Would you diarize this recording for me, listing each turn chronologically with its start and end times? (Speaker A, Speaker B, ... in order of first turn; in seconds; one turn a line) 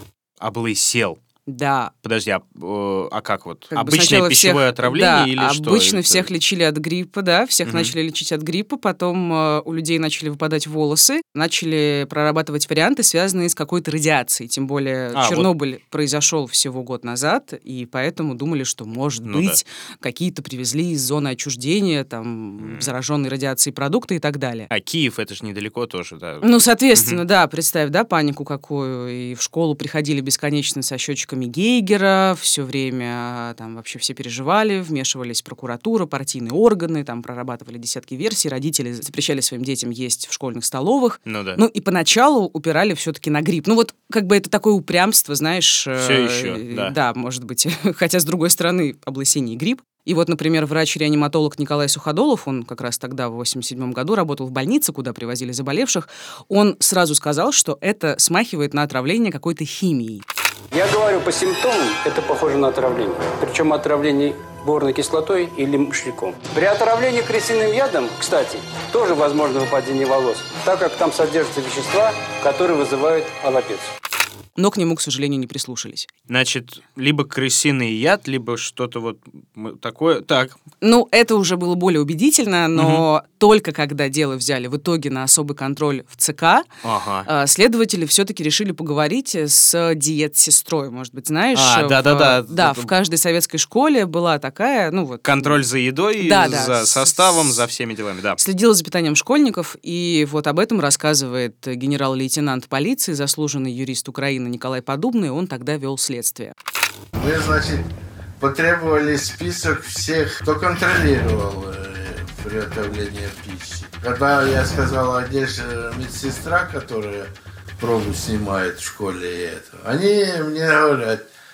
Speaker A: 0.4-1.2
Speaker B: 1.5-1.9
Speaker A: 2.0-6.3
Speaker B: 3.7-24.7
Speaker A: 7.7-7.9
Speaker A: 15.1-15.5
Speaker A: 19.3-19.6
Speaker A: 22.6-22.9
Speaker A: 24.7-27.2
Speaker B: 26.4-60.2
Speaker A: 41.2-41.6
Speaker A: 46.0-46.9
Speaker C: 60.7-73.9
Speaker B: 74.6-76.1
Speaker A: 76.3-80.6
Speaker B: 80.8-86.7
Speaker A: 82.7-83.0
Speaker A: 86.8-87.3
Speaker B: 87.2-95.6
Speaker A: 91.5-92.9
Speaker A: 95.2-98.4
Speaker B: 96.2-97.6
Speaker B: 98.4-106.5
Speaker D: 107.2-107.9
Speaker D: 108.4-121.2